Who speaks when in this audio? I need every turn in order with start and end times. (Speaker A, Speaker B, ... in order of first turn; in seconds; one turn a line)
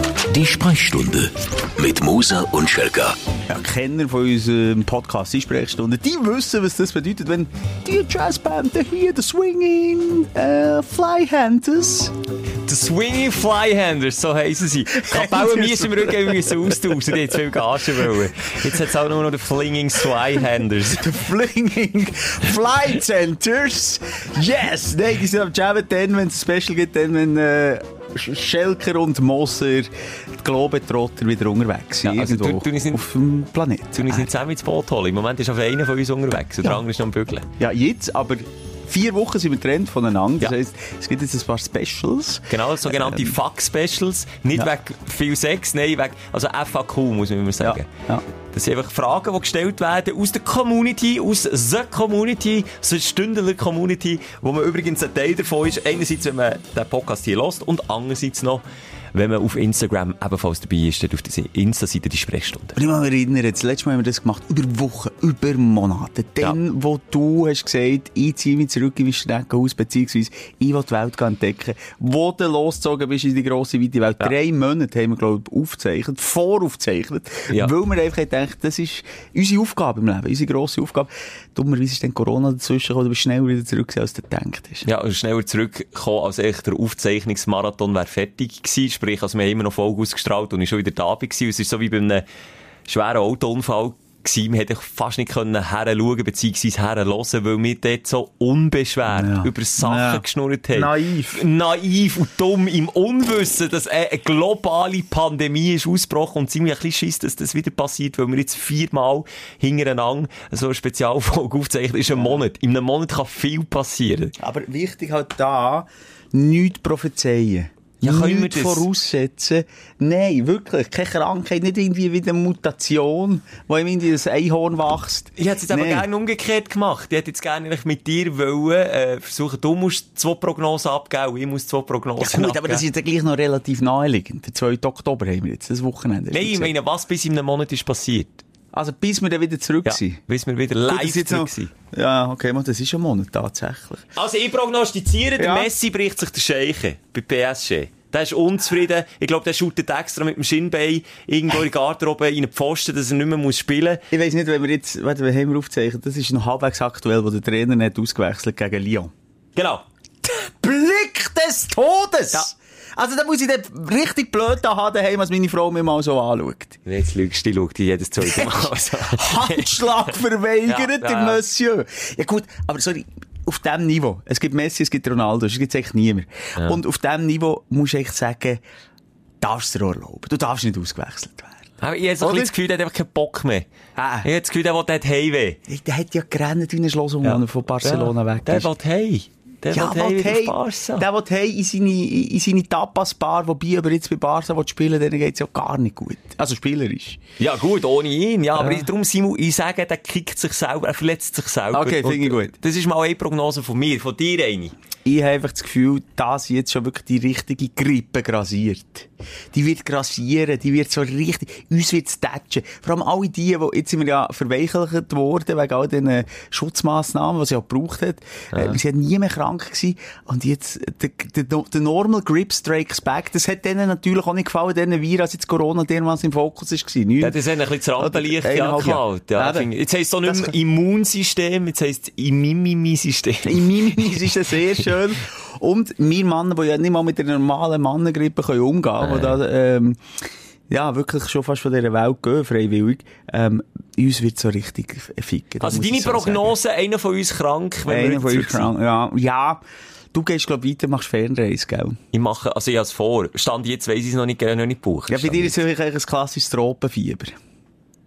Speaker A: 0.3-3.2
Speaker B: 3.5-12.2
Speaker C: 12.6-21.1
Speaker B: 14.9-18.8
Speaker B: 20.9-34.3
Speaker C: 32.0-33.0
Speaker C: 34.0-37.5
Speaker B: 37.6-43.4
Speaker C: 42.5-47.9
Speaker B: 47.6-48.2
Speaker C: 48.4-62.8
Speaker B: 62.8-84.9
Speaker C: 84.8-92.2
Speaker C: 92.9-114.4
Speaker B: 99.1-101.4
Speaker B: 112.1-112.4
Speaker B: 114.4-126.1
Speaker C: 118.0-118.9
Speaker C: 125.4-132.8
Speaker B: 132.2-136.7
Speaker C: 136.3-138.4
Speaker B: 138.7-140.2
Speaker C: 139.8-141.7
Speaker B: 140.9-144.1
Speaker C: 144.2-154.0
Speaker B: 145.4-145.7
Speaker B: 154.1-159.1
Speaker C: 159.6-159.8
Speaker B: 160.2-166.8
Speaker C: 166.9-169.8
Speaker B: 168.2-178.6
Speaker C: 170.7-171.4
Speaker B: 179.4-181.7
Speaker C: 181.8-183.7
Speaker B: 182.2-182.5
Speaker B: 184.0-184.3
Speaker C: 184.2-185.6
Speaker B: 185.7-188.7
Speaker C: 187.2-191.1
Speaker B: 189.7-197.2
Speaker C: 197.4-204.7
Speaker B: 198.6-198.9
Speaker B: 201.7-202.5
Speaker B: 205.1-227.4
Speaker C: 227.2-234.5
Speaker B: 228.0-229.7
Speaker B: 230.3-230.6
Speaker B: 233.4-240.0
Speaker C: 239.0-239.4
Speaker B: 240.7-246.5
Speaker C: 245.6-248.7
Speaker B: 247.9-249.6
Speaker B: 250.1-252.0
Speaker C: 252.1-255.6
Speaker B: 255.1-257.4